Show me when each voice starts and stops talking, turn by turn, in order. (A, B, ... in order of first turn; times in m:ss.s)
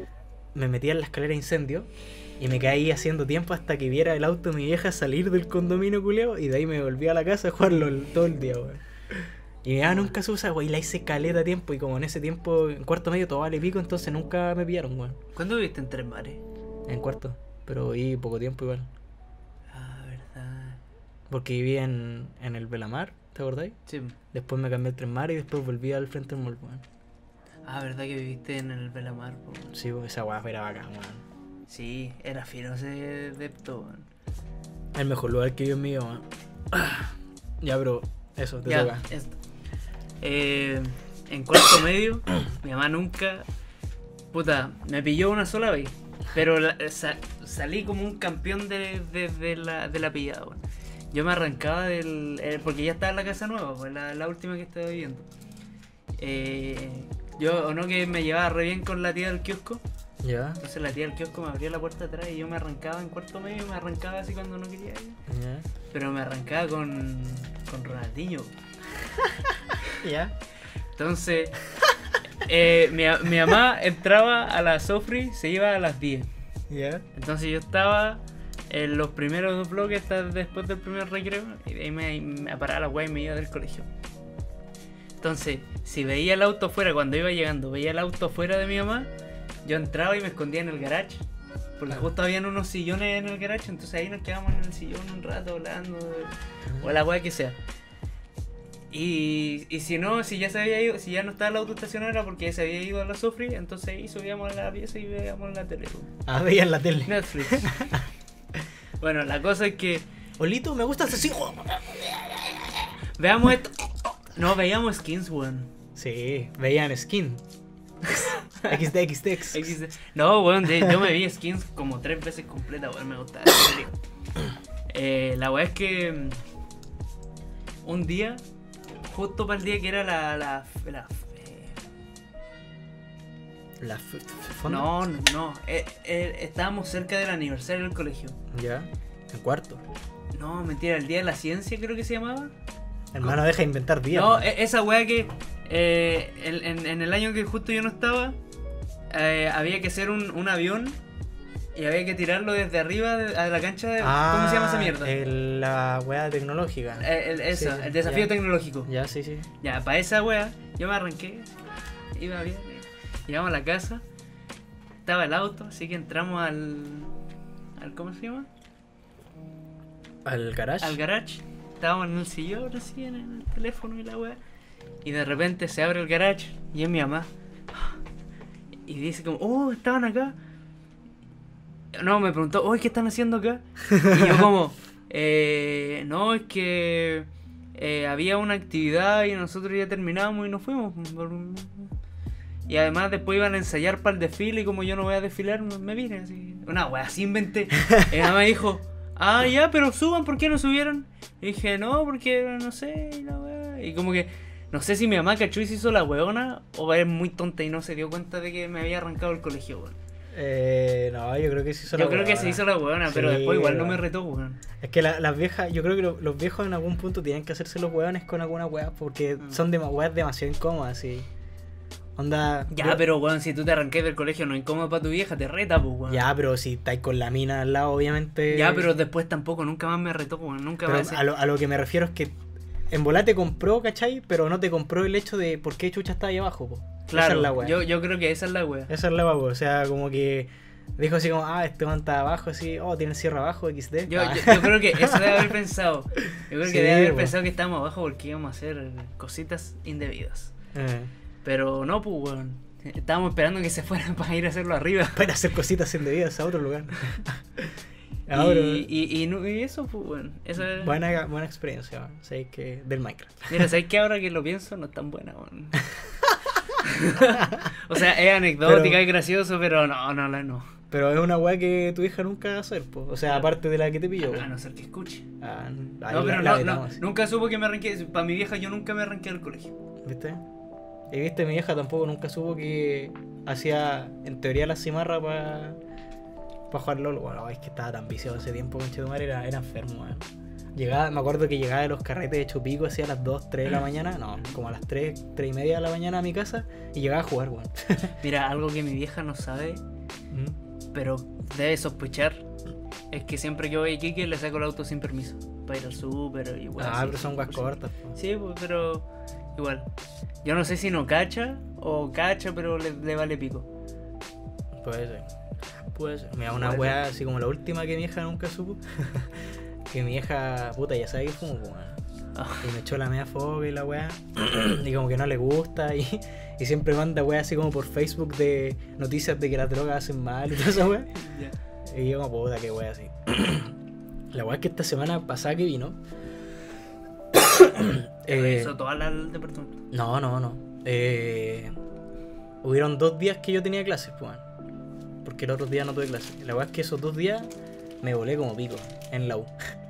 0:00.5-0:08.8 A
0:09.6-0:15.2 A
0:09.8-0:10.1 B
0:15.3-0:16.4 B
0:16.9-0:18.9 A
0:19.7-0:20.8 B
0:21.3-0:23.8 A
0:23.9-0:24.2 B
0:24.3-0:26.8 A
0:27.7-0:29.7 B
0:29.7-0:31.2 A
0:31.7-0:34.1 B
0:34.9-0:39.1 A
0:38.7-0:39.4 B
0:40.2-0:43.5 B
0:44.3-0:55.3 B
0:56.2-0:59.8 B
1:00.2-1:00.6 A
1:00.6-1:05.2 B
1:05.3-1:05.7 A
1:05.9-1:08.5 B
1:09.9-1:10.4 A
1:11.0-1:11.6 B
1:12.4-1:16.3 B
1:16.7-1:17.0 A
1:17.1-1:23.9 B
1:25.2-1:29.1 B
1:29.6-1:31.2 B
1:31.8-1:37.6 B
1:36.7-1:36.9 A
1:38.9-1:46.1 B
1:46.3-1:48.1 A
1:47.1-1:47.8 B
1:49.0-1:50.1 B
1:50.4-1:52.6 A
1:53.2-1:55.7 B
1:56.0-1:57.4 A
1:58.0-1:59.7 A
1:58.6-1:58.8 B
1:59.5-2:03.9 B
2:04.9-2:06.4 B
2:07.8-2:08.4 B
2:09.1-2:11.8 B
2:13.8-2:14.9 A
2:14.7-2:18.4 B
2:18.5-2:19.8 A
2:20.3-2:22.5 B
2:23.1-2:24.5 A
2:24.1-2:28.4 B
2:29.1-2:31.0 B
2:31.8-2:35.1 B
2:34.0-2:38.3 A
2:37.0-2:38.9 B
2:38.8-2:39.5 A
2:39.6-2:41.5 B
2:42.1-2:44.0 B
2:45.0-2:47.1 B
2:47.8-2:48.5 B
2:50.2-2:51.0 A
2:50.8-2:54.4 B
2:55.0-2:57.9 B
2:58.9-3:00.4 B
3:01.9-3:11.9 B
3:04.0-3:04.4 A
3:12.7-3:30.0 B
3:30.3-3:34.0 A
3:31.9-3:34.6 B
3:34.8-3:41.3 A
3:42.2-3:43.0 A
3:42.7-3:46.2 B
3:46.1-3:48.9 A
3:48.5-3:51.2 B
3:50.8-3:52.4 A
3:52.9-3:57.8 A
3:57.1-3:58.9 B
3:58.9-4:05.5 A
4:04.1-4:10.5 B
4:06.6-4:07.4 A
4:10.7-4:11.1 A
4:11.4-4:15.3 B
4:15.2-4:17.7 A
4:18.3-4:18.9 A
4:18.3-4:21.0 B
4:20.6-4:23.7 A
4:23.5-4:25.8 B
4:26.8-4:30.7 B
4:27.4-4:27.7 A
4:28.6-4:29.0 A
4:30.9-4:34.5 A
4:33.3-4:33.5 B
4:34.2-4:35.3 B
4:35.4-4:37.0 A
4:36.1-4:39.8 B
4:40.0-4:40.4 A
4:41.1-4:45.8 A
4:46.7-4:58.2 A
4:58.2-4:59.8 B
5:00.3-5:00.6 A
5:00.9-5:02.4 B
5:03.1-5:09.9 B
5:06.8-5:08.2 A
5:10.4-5:13.7 B
5:14.7-5:15.3 A
5:15.9-5:22.0 A
5:16.5-5:17.0 B
5:22.4-5:22.7 B
5:22.6-5:31.1 A
5:31.2-5:31.6 B
5:31.8-5:33.7 A
5:34.3-5:36.0 A
5:37.3-5:38.7 A
5:38.3-5:39.8 B
5:39.9-5:41.8 A
5:42.6-5:44.4 A
5:45.2-5:47.5 A
5:48.0-5:49.5 A